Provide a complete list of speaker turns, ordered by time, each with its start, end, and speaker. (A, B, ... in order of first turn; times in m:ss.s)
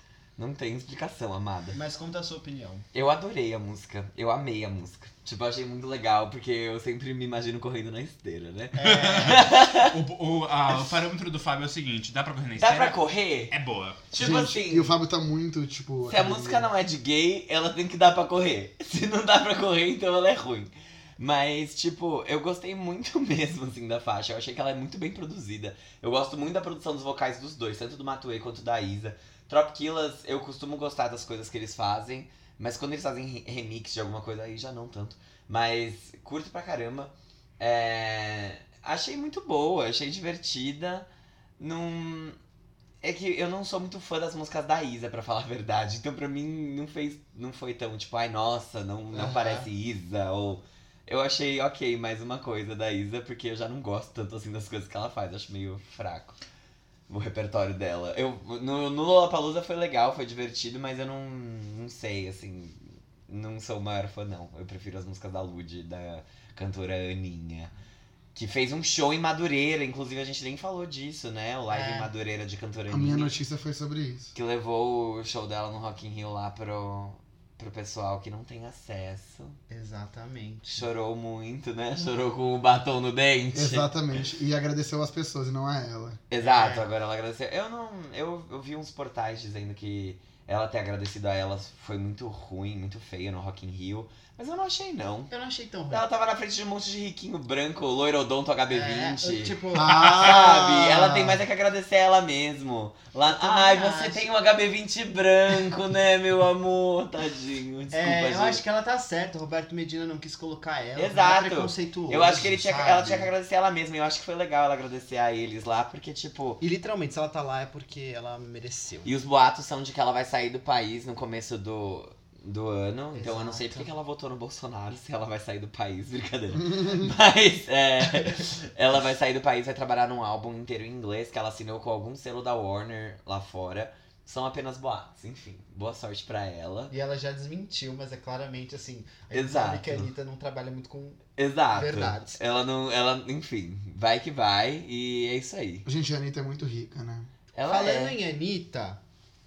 0:00.4-0:01.8 A
0:01.7-0:02.9 B
0:02.9-0:10.0 A
0:08.8-0:09.5 B
0:08.8-0:14.1 C
0:12.6-0:13.5 A
0:14.1-0:14.9 A
0:14.2-0:16.7 D
0:16.1-0:41.1 A
0:41.6-0:42.4 A
0:43.0-0:56.4 A
0:49.1-0:49.7 B
0:57.1-1:07.7 A
1:08.4-1:13.3 A
1:11.7-1:12.1 B
1:12.9-1:14.3 D
1:14.3-1:19.6 A
1:19.7-1:20.9 B
1:20.7-1:23.9 A
1:23.5-1:26.2 D
1:26.3-1:35.3 A
1:26.4-1:26.9 B
1:35.3-1:36.0 B
1:35.9-1:48.6 A
1:38.7-1:40.4 B
1:39.7-1:41.4 D
1:43.2-1:44.3 B
1:47.9-1:53.3 B
1:51.0-1:56.6 A
1:56.6-1:59.1 B
1:59.0-2:16.9 A
2:03.1-2:03.9 B
2:06.6-2:07.1 D
2:16.9-2:22.4 B
2:19.3-2:20.1 A
2:21.4-2:25.9 A
2:25.8-2:27.3 D
2:27.6-2:28.2 A
2:27.6-2:29.0 B